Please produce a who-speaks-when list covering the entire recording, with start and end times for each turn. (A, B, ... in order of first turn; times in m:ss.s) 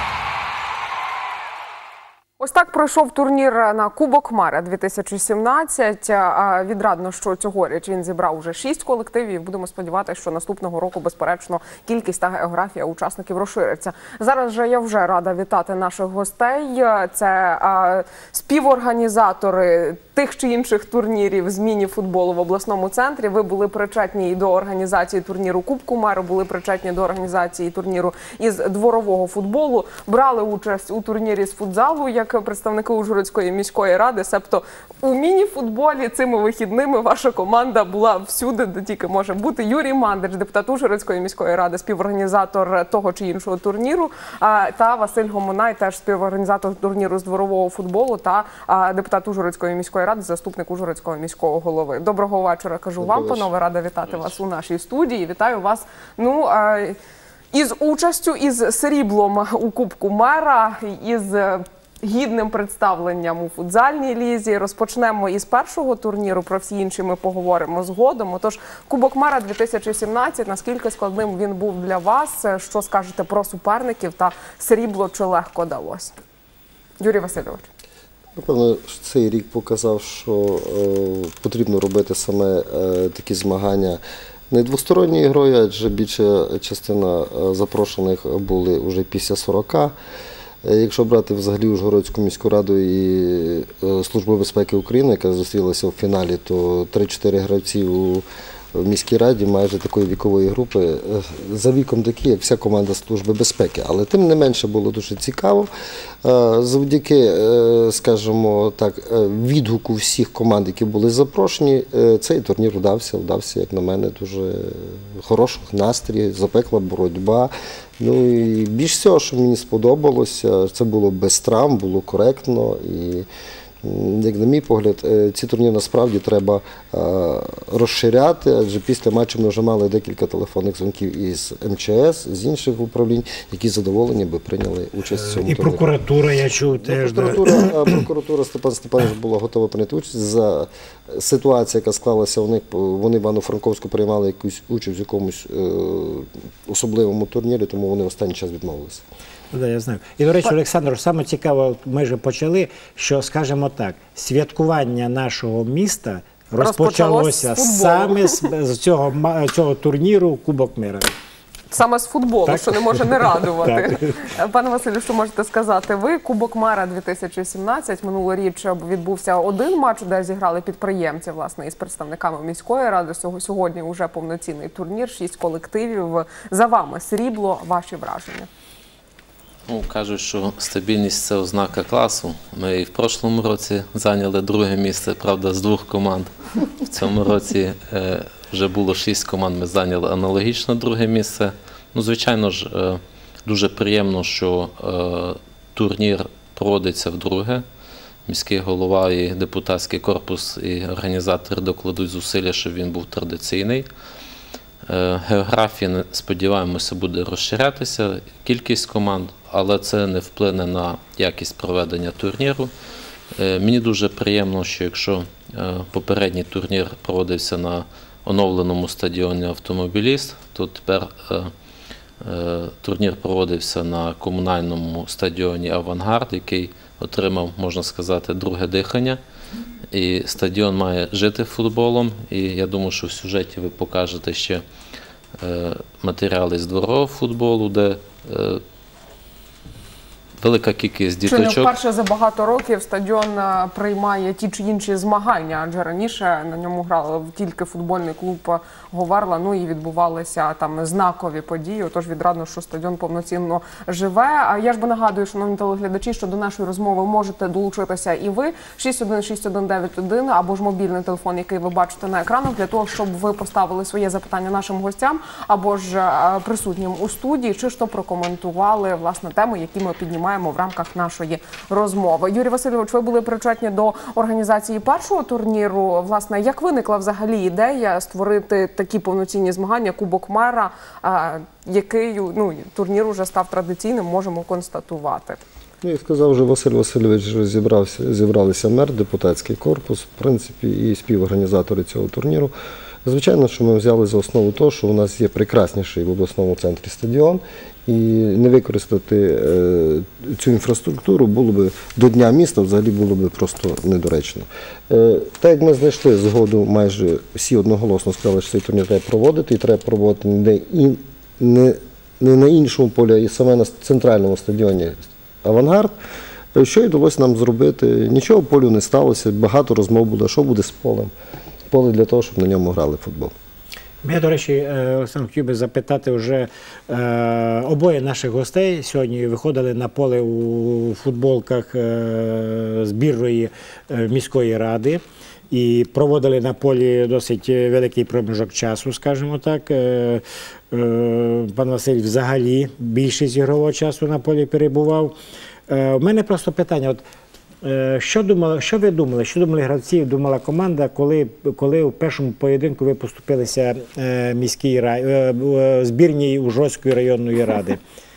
0:02.4-0:57.0 A
0:53.0-0:53.5 B
0:57.5-1:16.2 A
1:17.0-1:17.7 A
1:18.4-1:30.0 B
1:30.6-1:45.7 B
1:46.2-2:03.3 B
2:03.8-2:15.9 B
2:15.2-2:18.0 C
2:16.8-2:29.0 B
2:29.5-2:41.1 C
2:36.6-2:38.5 A
2:41.7-2:58.5 A
2:42.5-2:44.2 C
2:59.7-3:17.7 D
3:18.3-3:23.9 D
3:24.9-3:32.7 D
3:33.4-3:41.5 D
3:42.2-3:49.2 D
3:49.9-3:54.6 D
3:55.4-3:58.6 D
4:00.4-4:01.8 D
4:01.3-4:45.4 A
4:45.8-4:52.5 B
4:53.0-5:15.9 B
5:16.5-5:21.1 B
5:21.7-5:23.3 B
5:24.0-5:45.2 C
5:45.7-5:47.0 C
5:47.6-5:57.8 C